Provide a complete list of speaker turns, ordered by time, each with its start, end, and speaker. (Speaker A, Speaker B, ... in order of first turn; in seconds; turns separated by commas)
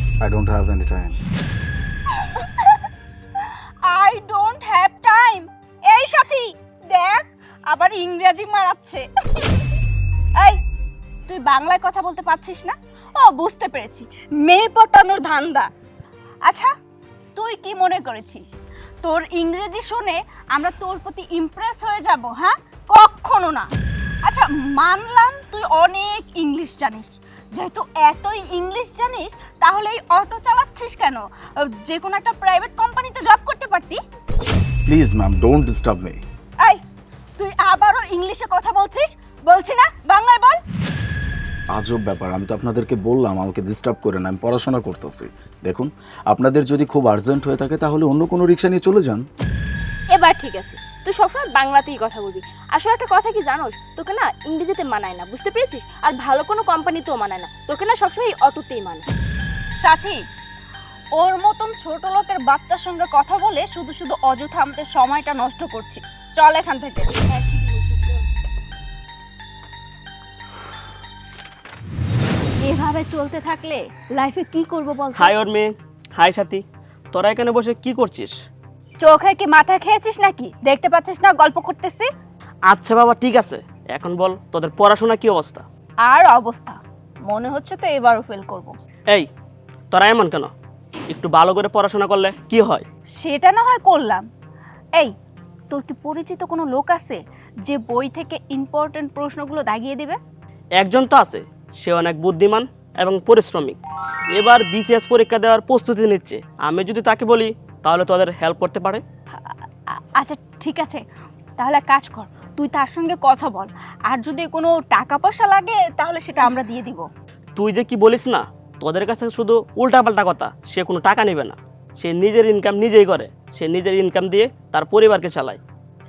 Speaker A: 0.2-1.2, Speaker B: 2.2-2.6, Speaker B: 3.9-9.6, Speaker B: 11.3-15.7, Speaker B: 16.4-16.7, Speaker B: 17.4-18.4, Speaker B: 19.0-23.7, Speaker B: 24.2-34.0, Speaker A: 34.9-36.2, Speaker B: 37.4-40.6, Speaker A: 41.7-49.2, Speaker C: 50.1-59.1, Speaker B: 59.8-60.2, Speaker B: 61.2-67.3, Speaker C: 67.3-68.2, Speaker B: 72.6-75.3, Speaker D: 75.2-78.3, Speaker B: 79.0-82.1, Speaker D: 82.7-85.6, Speaker B: 86.1-88.7, Speaker D: 89.9-90.5, Speaker D: 91.1-92.8, Speaker B: 93.2-94.2, Speaker B: 95.7-100.2, Speaker D: 100.8-103.8, Speaker D: 104.3-109.0, Speaker B: 109.9-111.0, Speaker B: 111.6-117.1, Speaker D: 117.6-125.6